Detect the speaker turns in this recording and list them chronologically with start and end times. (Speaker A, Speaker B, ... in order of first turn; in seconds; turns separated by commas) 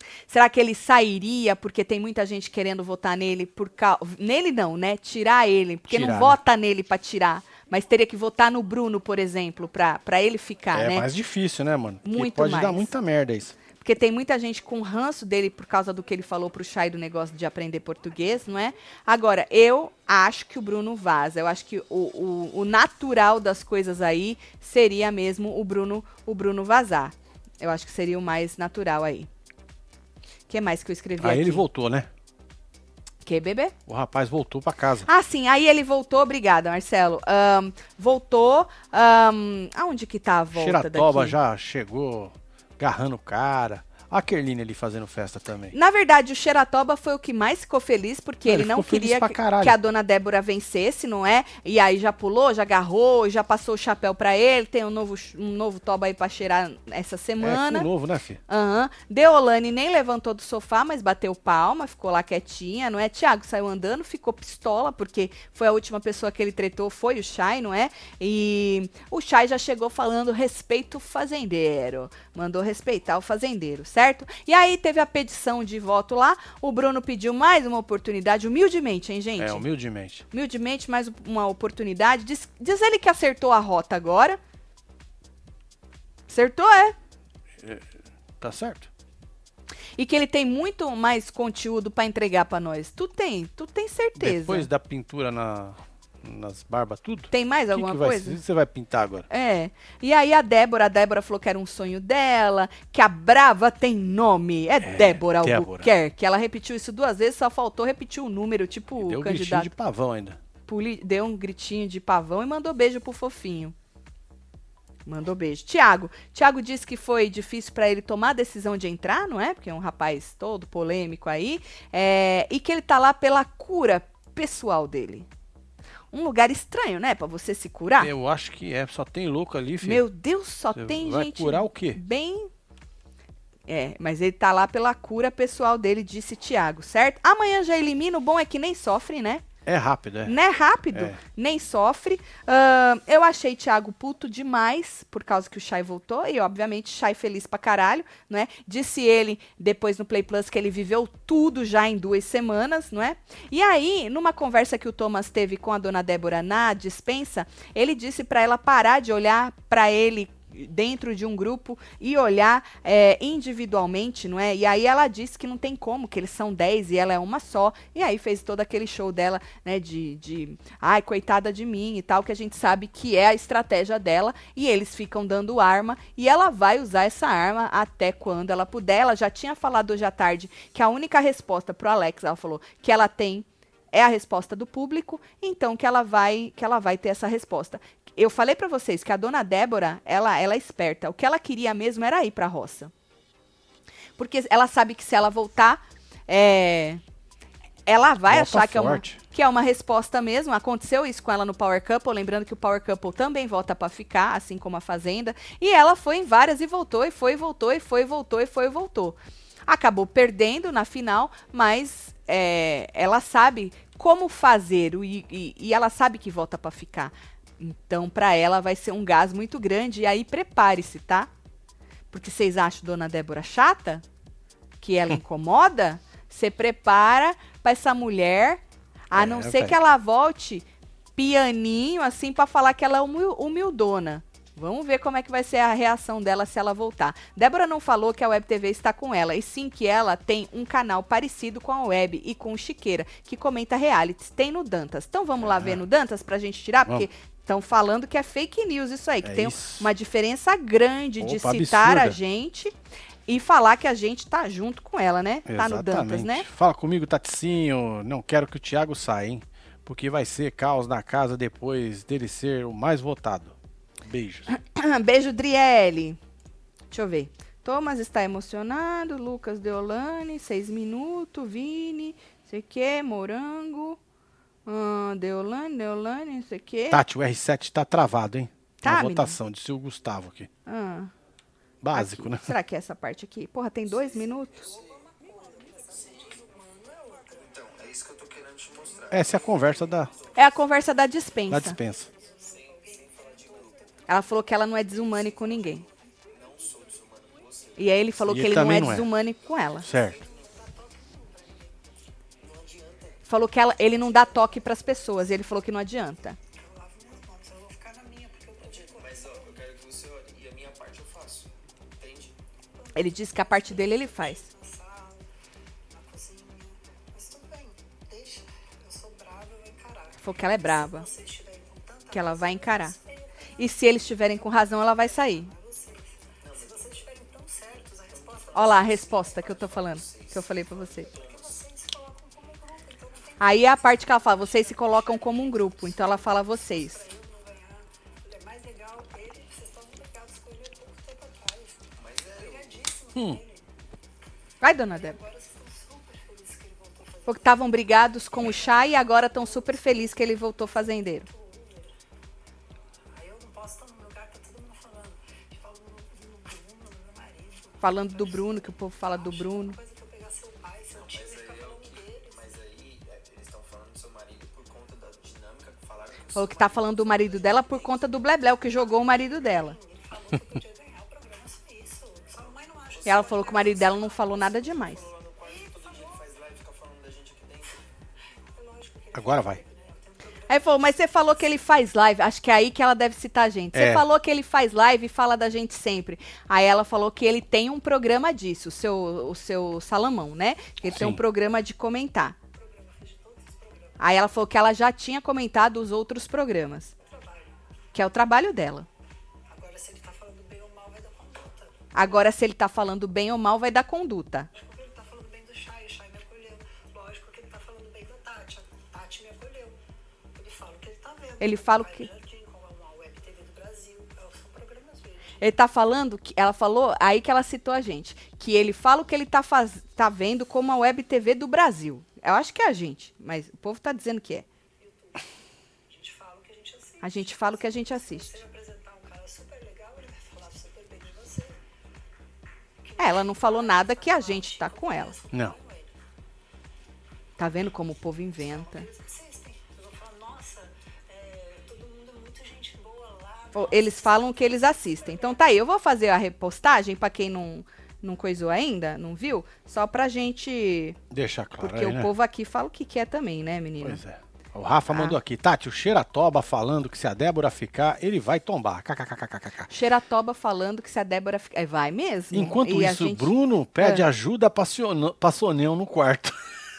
Speaker A: 0.3-11.1, Speaker B: 5.9-6.4, Speaker B: 10.7-13.6, Speaker A: 12.1-12.9, Speaker A: 13.8-29.3, Speaker A: 30.5-31.6, Speaker B: 31.2-32.1, Speaker A: 33.2-33.7, Speaker B: 33.9-35.1, Speaker A: 35.1-41.4, Speaker B: 40.5-45.8, Speaker A: 45.7-57.9, Speaker B: 48.5-49.8, Speaker B: 57.4-58.4, Speaker A: 58.5-79.7, Speaker B: 79.4-80.3, Speaker A: 80.3-84.4, Speaker A: 86.3-87.0, Speaker B: 87.6-87.9, Speaker B: 88.4-88.9, Speaker A: 90.0-94.7, Speaker B: 94.2-99.3, Speaker A: 97.3-98.4, Speaker A: 99.3-109.7, Speaker B: 104.8-105.9, Speaker B: 109.0-110.4, Speaker A: 110.7-113.7, Speaker A: 115.1-125.3, Speaker A: 126.1-128.1, Speaker B: 128.0-130.1, Speaker A: 129.8-132.5, Speaker B: 130.7-132.0, Speaker A: 133.7-139.4, Speaker B: 139.7-140.3, Speaker A: 140.2-192.9, Speaker B: 140.9-141.2, Speaker A: 194.2-197.0, Speaker A: 197.9-221.3, Speaker B: 198.3-199.2, Speaker A: 222.1-224.0, Speaker A: 224.8-230.7, Speaker B: 229.1-229.8, Speaker A: 231.2-252.7, Speaker B: 245.4-245.8, Speaker B: 249.2-249.9, Speaker B: 251.2-252.2, Speaker A: 253.3-256.5, Speaker B: 255.5-264.5, Speaker A: 264.5-266.2, Speaker A: 266.9-274.0, Speaker A: 274.7-277.0, Speaker B: 276.9-280.5, Speaker A: 278.8-279.4, Speaker A: 280.7-281.1, Speaker B: 281.8-282.5, Speaker A: 281.9-284.7, Speaker C: 284.6-287.8, Speaker D: 287.8-289.1, Speaker B: 289.1-290.1, Speaker A: 290.4-291.8, Speaker B: 291.5-292.1, Speaker C: 292.4-294.0, Speaker A: 294.1-295.9, Speaker D: 296.4-297.8, Speaker A: 297.8-299.9, Speaker B: 298.2-299.1, Speaker B: 299.8-300.2, Speaker C: 300.0-301.7, Speaker C: 302.4-303.2, Speaker A: 303.3-306.4, Speaker C: 306.6-309.7, Speaker D: 309.5-312.3, Speaker C: 312.8-315.2, Speaker A: 312.9-314.5, Speaker C: 315.9-323.6, Speaker A: 320.2-321.1, Speaker A: 322.1-322.9, Speaker A: 323.6-325.5, Speaker C: 324.5-329.2, Speaker A: 328.5-331.1, Speaker C: 331.1-343.7, Speaker A: 333.4-337.1, Speaker B: 343.1-343.4, Speaker A: 344.6-345.2, Speaker C: 344.9-347.6, Speaker A: 347.3-351.3, Speaker C: 348.4-348.8, Speaker C: 351.3-351.9, Speaker C: 353.1-362.5, Speaker A: 357.8-359.8, Speaker D: 362.5-366.4, Speaker A: 366.3-369.8, Speaker C: 367.2-367.9, Speaker C: 368.7-374.5, Speaker A: 373.1-375.1, Speaker D: 375.1-377.7, Speaker C: 375.4-376.3, Speaker C: 378.4-381.1, Speaker B: 379.1-379.6, Speaker A: 380.5-392.4, Speaker B: 383.7-384.1, Speaker B: 390.9-391.2, Speaker C: 392.6-394.1, Speaker A: 394.0-396.9, Speaker C: 397.1-397.5, Speaker A: 397.9-398.9, Speaker C: 399.5-401.9, Speaker A: 401.9-404.5, Speaker C: 404.5-409.8, Speaker C: 410.4-415.4, Speaker A: 411.4-412.1, Speaker A: 415.4-424.4, Speaker C: 424.8-425.3, Speaker C: 425.9-431.6, Speaker A: 427.0-428.4, Speaker C: 432.8-435.9, Speaker A: 433.0-435.2, Speaker A: 437.4-438.9, Speaker C: 438.4-445.4, Speaker A: 443.5-451.0, Speaker B: 451.1-452.1, Speaker A: 451.6-454.0, Speaker B: 453.8-459.7, Speaker A: 454.9-455.2, Speaker A: 459.7-464.1, Speaker B: 462.3-466.6